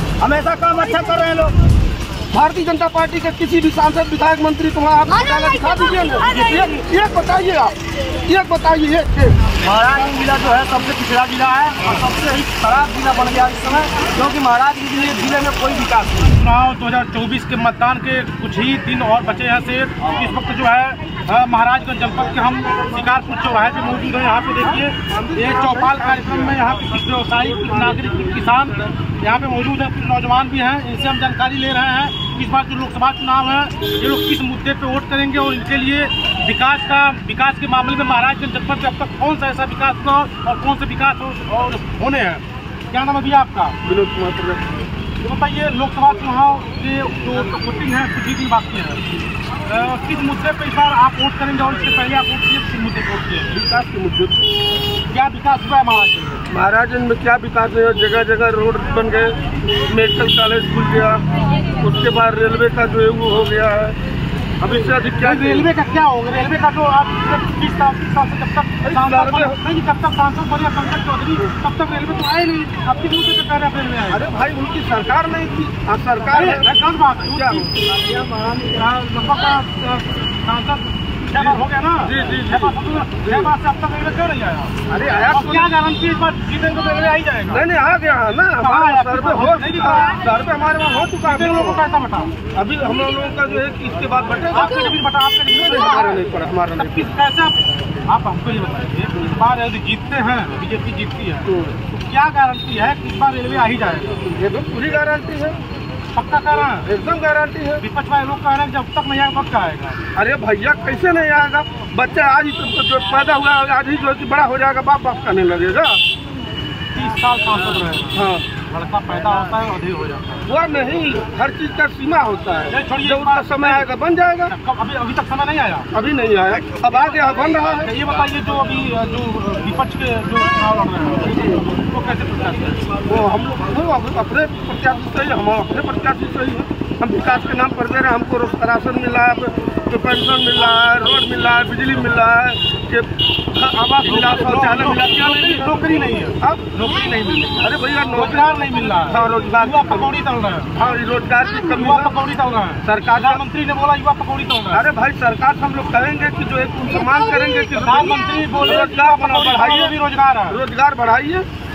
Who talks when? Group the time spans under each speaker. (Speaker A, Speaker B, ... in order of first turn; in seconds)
Speaker A: 0.2-1.5, 9.6-16.3, 77.8-78.8
Speaker B: 2.3-9.4, 25.1-26.6, 27.5-28.4, 43.8-44.6, 53.5-54.5, 56.5-61.2, 61.8-64.0, 64.6-65.7, 68.8-69.6, 74.1-76.7, 77.3-77.7, 81.3-83.5, 84.9-85.7, 87.5-91.8, 92.5-95.0, 95.5-97.0, 101.5-101.8, 104.2-105.5, 106.8-107.8, 110.1-116.0, 118.1-118.4, 120.5-124.5, 125.9-127.9, 131.3-131.6, 133.1-145.8, 146.4-146.7, 147.6-148.5, 149.1-150.1, 150.8-152.1, 152.8-153.4, 154.7-160.0, 160.5-161.5
Speaker C: 11.8-12.1, 16.3-43.8, 45.2-49.1, 49.6-53.5, 55.1-56.4, 65.2-74.3, 76.3-77.7, 78.7-84.7, 85.3-87.6, 88.6-90.1, 91.2-92.3, 94.5-96.2, 96.8-104.2, 106.1-106.9, 107.8-110.0, 116.9-120.4, 122.7-123.9, 124.5-125.9, 127.8-132.8, 144.0-150.7, 151.7-154.8, 157.8-160.6